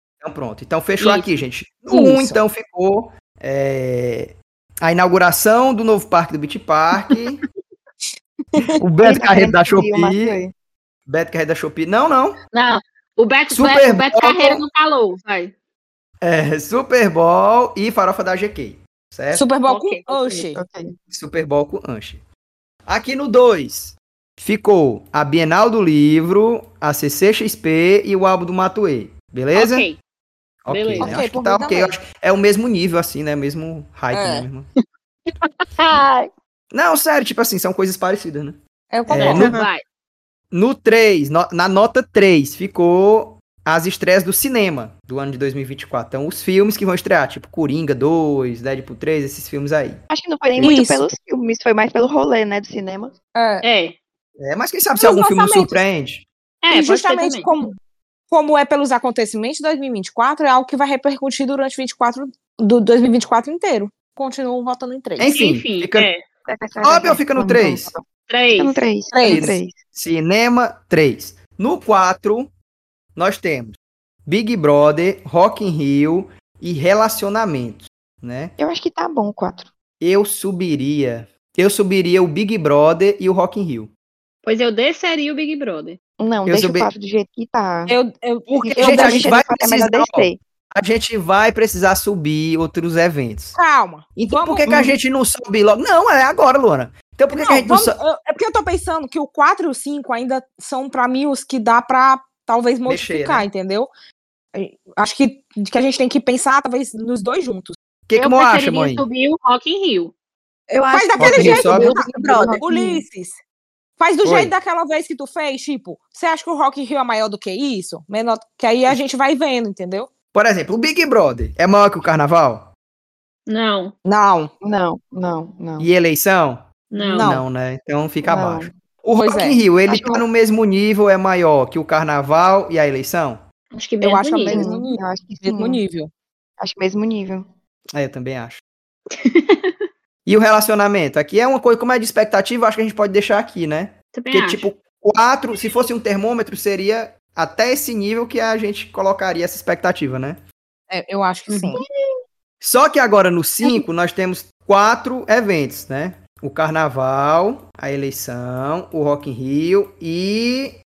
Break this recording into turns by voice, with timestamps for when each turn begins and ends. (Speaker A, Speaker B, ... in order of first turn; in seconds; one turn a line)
Speaker A: 0.2-7.4
Speaker B: 1.0-1.3
Speaker C: 1.9-2.4
Speaker C: 8.6-8.8
Speaker A: 8.8-10.4
Speaker D: 9.0-10.5
Speaker A: 11.1-12.4
Speaker B: 12.5-15.5
Speaker A: 13.5-14.6
Speaker A: 16.2-19.5
Speaker C: 19.3-20.6
Speaker B: 19.7-20.4
Speaker D: 20.1-20.9
Speaker A: 21.1-22.2
Speaker A: 22.9-29.9
Speaker B: 29.6-30.0
Speaker A: 30.6-34.7
Speaker B: 30.7-31.2
Speaker C: 31.0-31.9
Speaker C: 34.1-34.5
Speaker B: 35.4-36.3
Speaker A: 36.7-39.6
Speaker C: 38.9-39.7
Speaker B: 39.2-39.8
Speaker A: 40.5-50.0
Speaker D: 50.1-53.1
Speaker A: 50.5-50.8
Speaker C: 50.6-51.1
Speaker C: 53.4-53.6
Speaker B: 53.6-54.0
Speaker A: 54.4-56.3
Speaker C: 55.0-55.8
Speaker B: 56.6-57.5
Speaker C: 56.7-57.7
Speaker C: 58.3-65.3
Speaker A: 65.2-66.1
Speaker B: 65.3-66.2
Speaker D: 66.5-69.8
Speaker A: 66.8-67.9
Speaker B: 68.3-68.8
Speaker C: 69.1-69.5
Speaker A: 69.2-72.5
Speaker A: 73.2-78.6
Speaker D: 78.6-79.7
Speaker A: 80.0-83.9
Speaker B: 84.4-86.0
Speaker D: 86.2-88.0
Speaker A: 86.5-86.9
Speaker C: 87.9-89.3
Speaker A: 88.5-93.6
Speaker D: 88.6-90.4
Speaker C: 93.5-94.7
Speaker A: 94.1-98.0
Speaker D: 94.7-95.0
Speaker C: 97.3-103.9
Speaker A: 102.9-103.5
Speaker C: 104.5-107.8
Speaker A: 108.1-109.0
Speaker B: 108.2-110.1
Speaker E: 110.7-113.0
Speaker C: 110.9-113.4
Speaker A: 111.2-112.0
Speaker D: 112.1-113.0
Speaker C: 114.0-120.1
Speaker A: 114.2-114.5
Speaker A: 120.3-122.7
Speaker B: 123.5-123.9
Speaker C: 124.0-124.5
Speaker D: 124.6-125.9
Speaker A: 125.8-133.4
Speaker B: 126.9-127.3
Speaker C: 127.0-127.5
Speaker D: 128.2-128.7
Speaker C: 129.2-129.6
Speaker D: 129.9-130.2
Speaker B: 133.7-134.6
Speaker C: 134.0-136.1
Speaker D: 134.5-135.8
Speaker D: 136.6-137.4
Speaker A: 137.9-138.6
Speaker B: 139.1-139.7
Speaker A: 140.3-150.4
Speaker B: 144.1-144.7
Speaker C: 150.9-151.8
Speaker B: 151.5-151.8
Speaker A: 152.6-160.8